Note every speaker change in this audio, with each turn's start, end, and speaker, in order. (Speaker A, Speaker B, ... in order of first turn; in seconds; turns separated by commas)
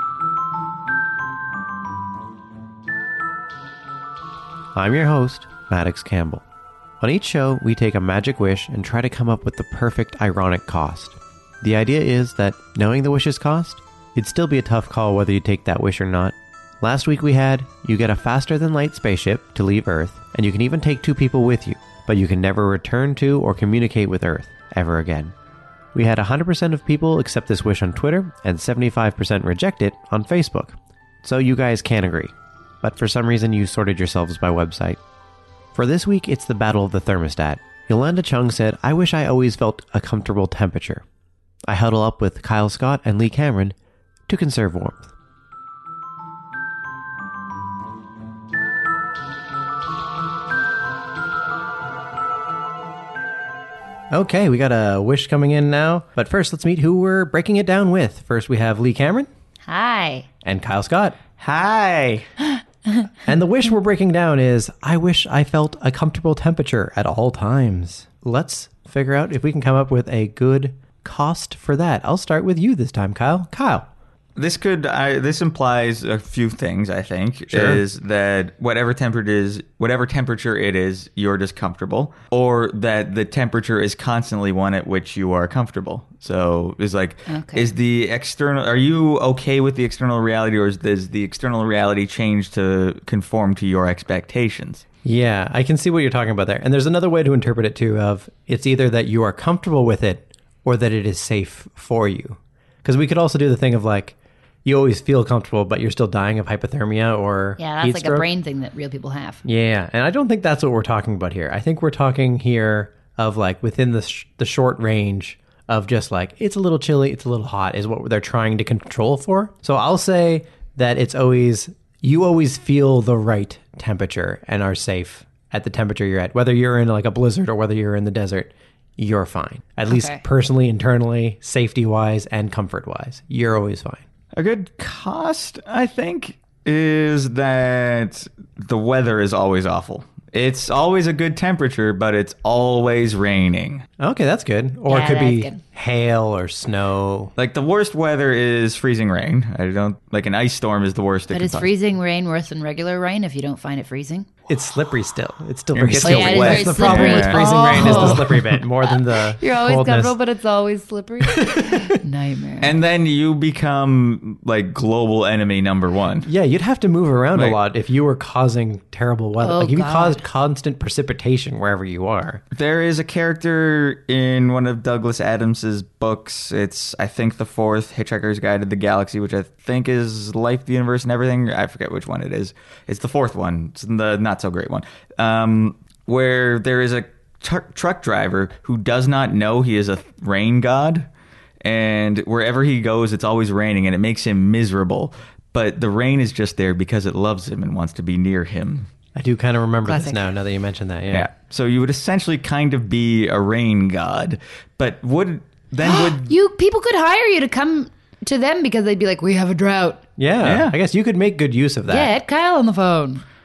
Speaker A: 4.7-6.4, Speaker A: 7.0-25.3, Speaker A: 25.9-35.0, Speaker A: 35.7-41.0, Speaker A: 41.7-43.7, Speaker A: 44.3-45.1, Speaker A: 54.1-59.3, Speaker B: 59.7-60.3, Speaker A: 60.4-61.2, Speaker C: 61.4-62.3, Speaker A: 63.2-73.9, Speaker C: 74.3-94.8, Speaker A: 77.5-77.8, Speaker B: 87.3-87.7, Speaker A: 95.0-108.3, Speaker B: 107.6-109.4, Speaker A: 109.4-134.0, Speaker B: 129.9-130.2, Speaker C: 134.3-143.8, Speaker A: 144.0-147.3, Speaker B: 144.9-145.6, Speaker C: 147.4-151.7, Speaker B: 151.3-154.3, Speaker A: 154.5-160.2, Speaker C: 155.7-158.3, Speaker B: 156.0-158.3, Speaker B: 158.8-162.7, Speaker A: 161.3-161.8, Speaker C: 162.6-166.3, Speaker A: 166.2-172.4, Speaker B: 169.4-170.2, Speaker C: 172.5-191.1, Speaker C: 191.6-198.9, Speaker A: 199.1-201.3, Speaker B: 199.8-200.2, Speaker C: 201.1-206.3, Speaker B: 205.8-210.0, Speaker A: 210.2-212.1, Speaker C: 210.4-210.7, Speaker B: 211.9-213.2